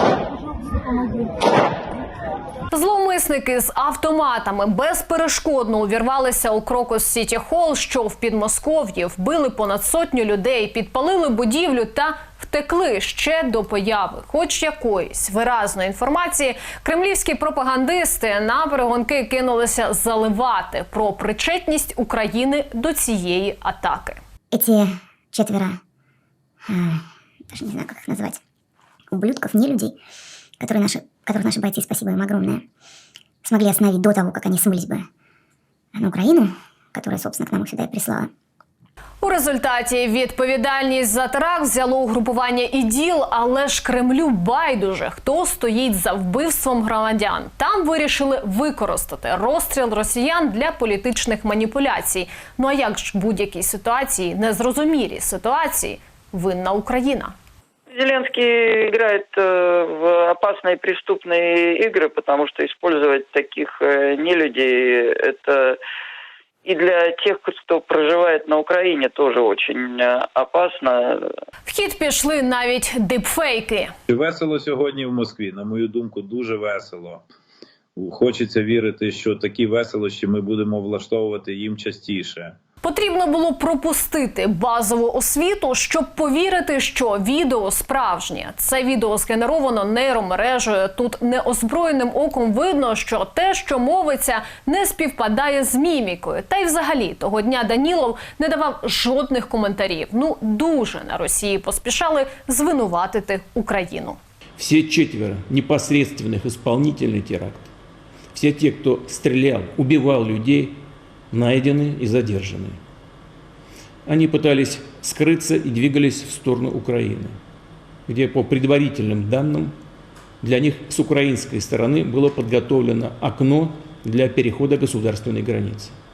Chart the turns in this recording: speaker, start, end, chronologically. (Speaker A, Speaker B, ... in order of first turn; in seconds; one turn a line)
Speaker A: 2.7-24.2
Speaker B: 24.5-25.8
Speaker B: 26.7-28.4
Speaker B: 29.1-30.0
Speaker B: 30.6-32.6
Speaker B: 33.4-35.1
Speaker B: 35.9-38.3
Speaker A: 39.2-57.3
Speaker C: 57.9-65.8
Speaker C: 66.6-71.2
Speaker A: 71.7-73.9
Speaker D: 74.1-77.3
Speaker D: 78.0-82.6
Speaker A: 82.8-104.2
Speaker E: 104.6-107.7
Speaker E: 108.3-112.8
Speaker E: 114.0-117.4
Speaker E: 118.1-119.8
Speaker E: 120.4-126.0